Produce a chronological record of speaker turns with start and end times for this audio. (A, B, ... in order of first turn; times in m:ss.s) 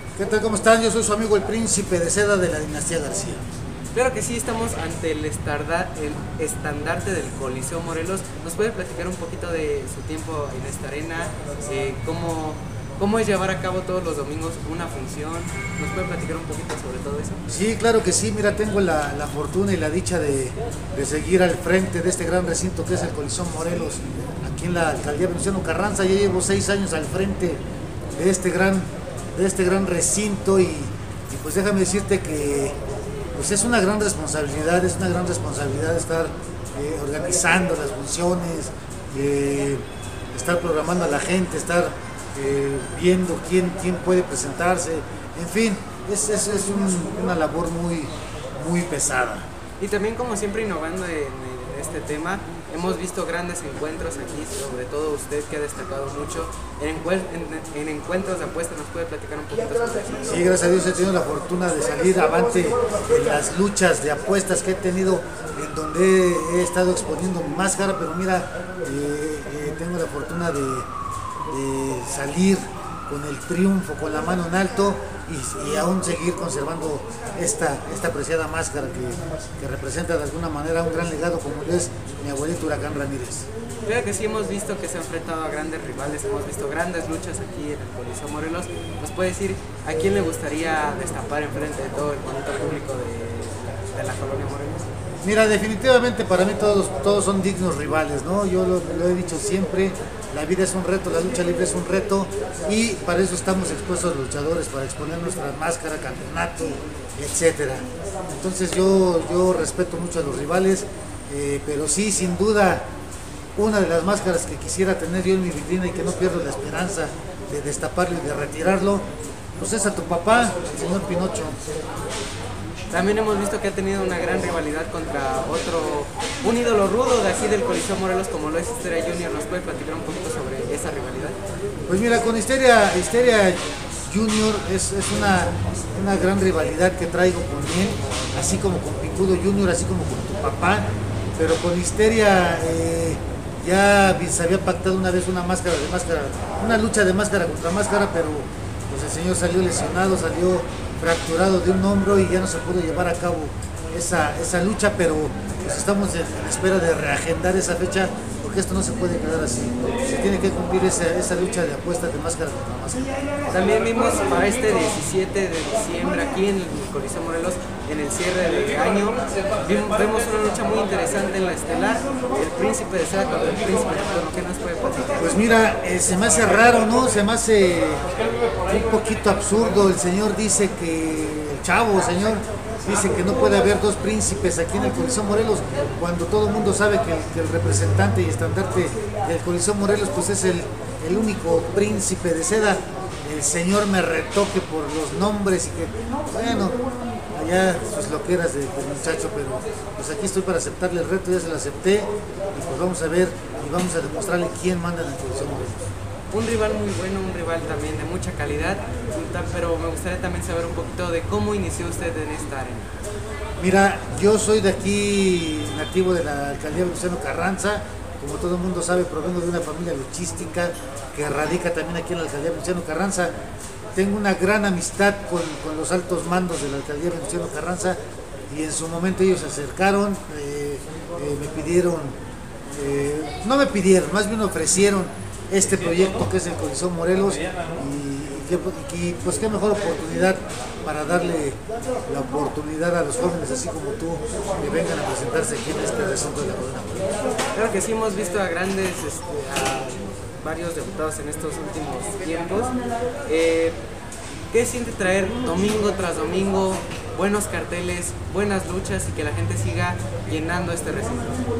0:00.2-0:03.4 A
0:03.9-0:17.4 B
0:17.5-0:27.6 A
0:28.1-0:32.8 A
0:33.3-0:49.5 A
0:49.8-1:00.2 B
1:00.2-1:10.9 A
1:11.5-1:23.5 A
1:23.8-1:34.9 B
1:35.2-1:52.9 A
1:53.6-2:01.6 A
2:02.9-2:11.4 B
2:11.9-2:43.1 A
2:43.5-2:55.2 B
2:55.2-2:58.0 A
2:58.6-3:16.8 A
3:17.3-3:25.8 A
3:26.3-3:32.9 B
3:33.6-3:43.3 A
3:43.9-3:52.2 A
3:52.7-4:07.0 A
4:07.5-4:13.8 B
4:14.5-4:21.4 B